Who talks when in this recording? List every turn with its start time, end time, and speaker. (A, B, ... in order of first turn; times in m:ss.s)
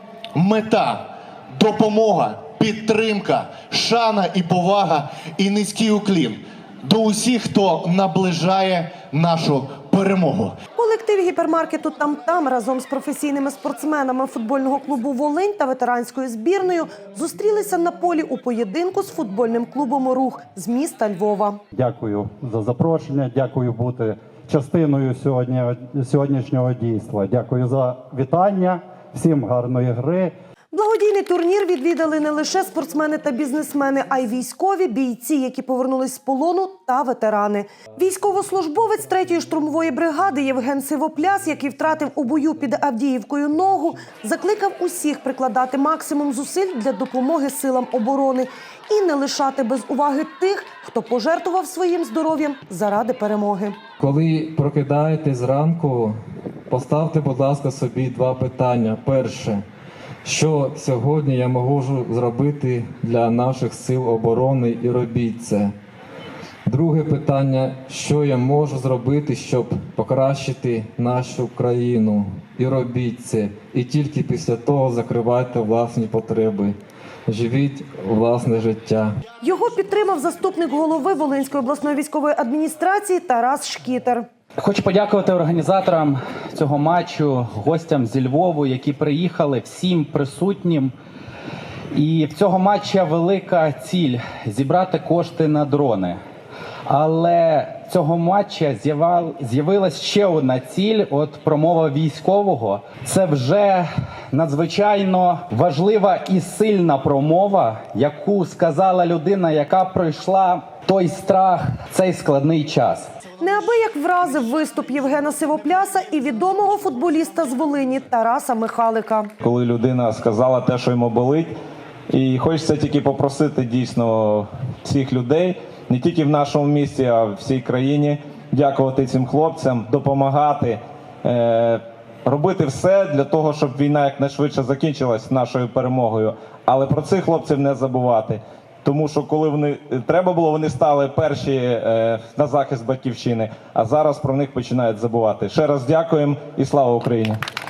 0:00.4-0:10.6 A
0:10.8-0:21.6 B
0:21.7-0:30.3 C
0:30.7-0:53.8 B
0:54.0-0:56.2 D
0:56.7-0:59.6 D
1:00.2-1:05.7 D
1:06.7-1:16.8 D
1:17.3-1:19.1 D
1:19.4-1:24.3 B
1:24.6-1:30.9 E
1:31.9-1:36.2 E
1:36.9-1:53.1 E
1:53.4-1:59.3 B
1:59.4-2:01.5 F
2:02.1-2:27.4 F